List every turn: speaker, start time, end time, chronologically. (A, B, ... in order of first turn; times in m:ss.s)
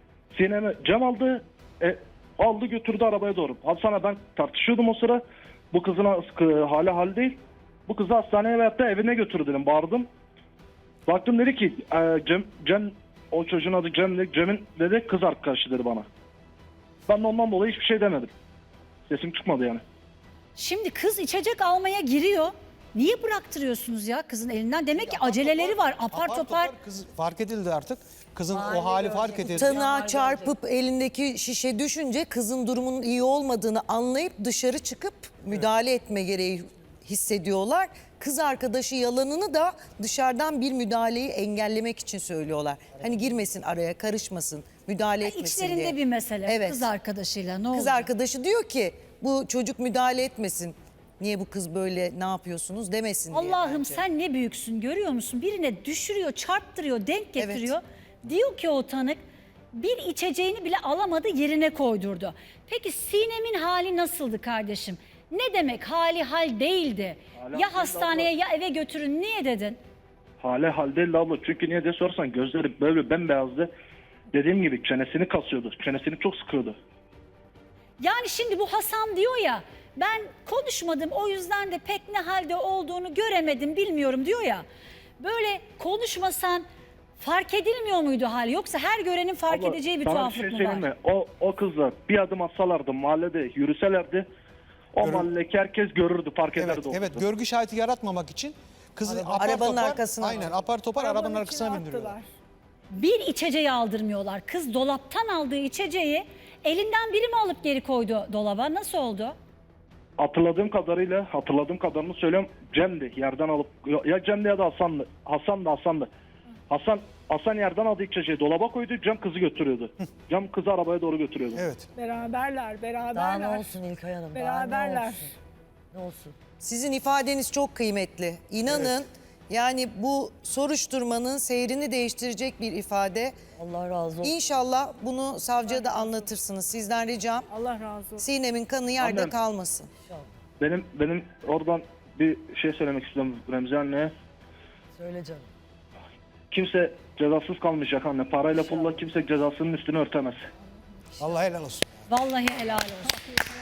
0:00.3-0:10.1 A
0:11.1-0:16.1 A
0:17.1-0:18.3 A
0:19.1-0:19.8 A
0:20.6-0:26.7 B
0:24.9-0:29.9 C
0:28.5-0:30.5 D
0:29.6-0:46.9 E
0:45.2-0:48.0 B
0:47.7-0:54.0 E
0:53.3-0:59.2 B
0:57.4-0:57.7 E
0:59.7-1:09.8 B
1:07.4-1:08.3 A
1:10.4-1:13.7 A
1:14.3-1:16.8 A
1:18.0-1:24.6 B
1:25.2-1:26.6 B
1:27.2-1:30.8 B
1:29.5-1:34.3 A
1:34.9-1:37.2 A
1:35.0-1:35.3 C
1:36.6-1:42.2 C
1:39.0-1:40.6 E
1:41.0-1:42.2 F
1:42.9-1:49.4 B
1:50.2-1:56.1 A
1:56.7-2:01.6 A
2:01.5-2:01.9 C
2:02.0-2:03.7 F
2:03.1-2:05.3 D
2:04.3-2:05.3 F
2:05.9-2:06.3 D
2:06.6-2:13.4 E
2:13.6-2:14.4 D
2:14.2-2:17.5 E
2:15.7-2:16.1 F
2:17.5-2:18.3 F
2:18.2-2:19.9 E
2:19.0-2:19.3 A
2:20.6-2:24.1 A
2:24.9-2:25.5 D
2:26.5-2:30.4 A
2:31.2-2:32.1 C
2:32.1-2:33.3 B